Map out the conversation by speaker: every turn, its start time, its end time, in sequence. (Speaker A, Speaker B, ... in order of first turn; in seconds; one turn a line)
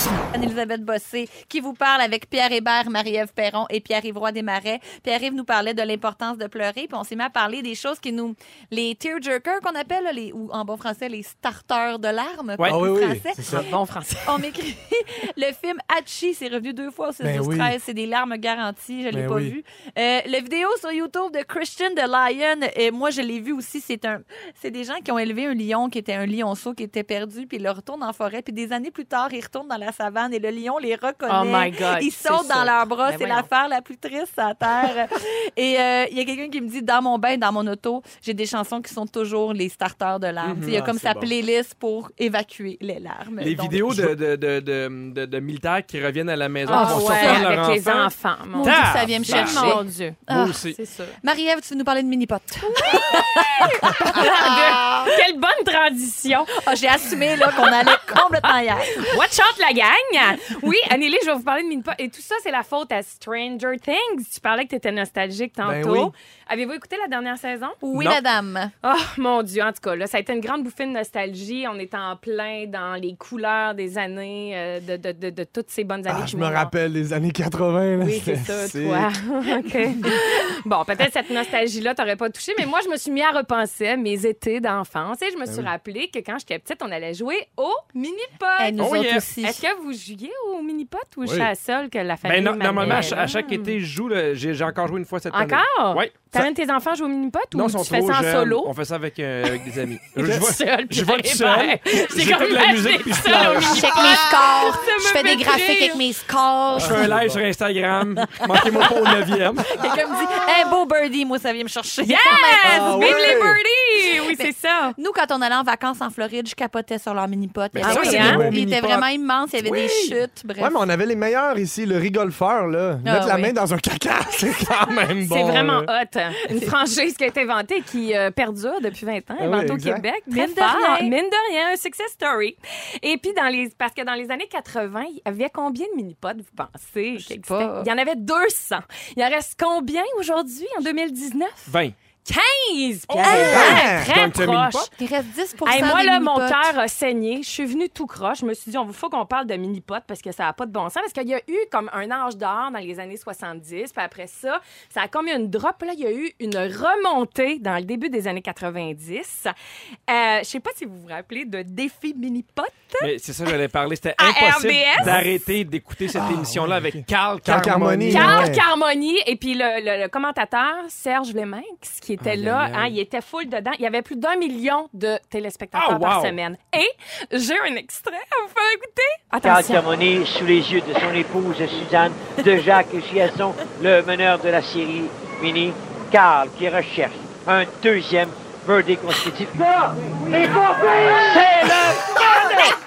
Speaker A: 0.2-13.7
Speaker B: 12.6-12.8
Speaker C: 12.7-13.7
Speaker D: 13.4-14.5
Speaker A: 14.2-43.9
Speaker C: 17.2-17.8
Speaker C: 19.1-19.6
Speaker D: 31.3-33.5
Speaker B: 40.4-40.9
Speaker C: 40.6-41.3
Speaker B: 43.4-50.8
Speaker C: 43.8-44.2
Speaker D: 46.7-50.2
Speaker A: 46.7-47.5
Speaker A: 48.5-50.6
Speaker D: 50.7-51.2
Speaker A: 51.2-55.2
Speaker D: 52.6-56.5
Speaker A: 56.5-59.2
Speaker D: 57.6-67.8
Speaker C: 65.6-66.1
Speaker A: 67.8-68.7
Speaker B: 67.9-68.2
Speaker D: 68.8-76.7
Speaker C: 76.1-79.1
Speaker D: 78.0-88.9
Speaker A: 88.6-89.6
Speaker B: 88.8-89.3
Speaker D: 89.4-93.8
Speaker C: 91.2-91.5
Speaker B: 92.2-96.5
Speaker C: 92.8-93.1
Speaker D: 95.3-98.7
Speaker B: 97.5-103.9
Speaker D: 100.2-106.0
Speaker C: 100.2-100.5
Speaker A: 103.6-107.1
Speaker C: 103.8-104.3
Speaker C: 106.8-107.4
Speaker B: 106.8-109.8
Speaker A: 108.4-108.9
Speaker A: 109.6-113.4
Speaker D: 112.0-115.0
Speaker C: 112.6-113.6
Speaker A: 114.3-120.8
Speaker B: 117.7-119.0
Speaker D: 117.8-118.5
Speaker C: 118.0-119.0
Speaker B: 119.6-120.2
Speaker C: 120.6-125.9
Speaker A: 123.0-123.5
Speaker D: 125.3-141.7
Speaker C: 129.4-130.1
Speaker A: 130.3-131.1
Speaker A: 137.2-137.9
Speaker B: 141.7-141.9
Speaker D: 142.2-144.9
Speaker B: 143.1-144.9
Speaker A: 143.2-143.8
Speaker C: 143.3-144.1
Speaker A: 144.9-146.7
Speaker D: 145.7-159.5
Speaker D: 160.1-163.1
Speaker B: 163.0-168.5
Speaker D: 164.2-165.1
Speaker C: 165.0-165.3
Speaker C: 166.1-168.7
Speaker D: 168.1-179.9
Speaker B: 172.2-172.9
Speaker B: 175.8-176.4
Speaker E: 179.5-190.8
Speaker A: 192.1-192.8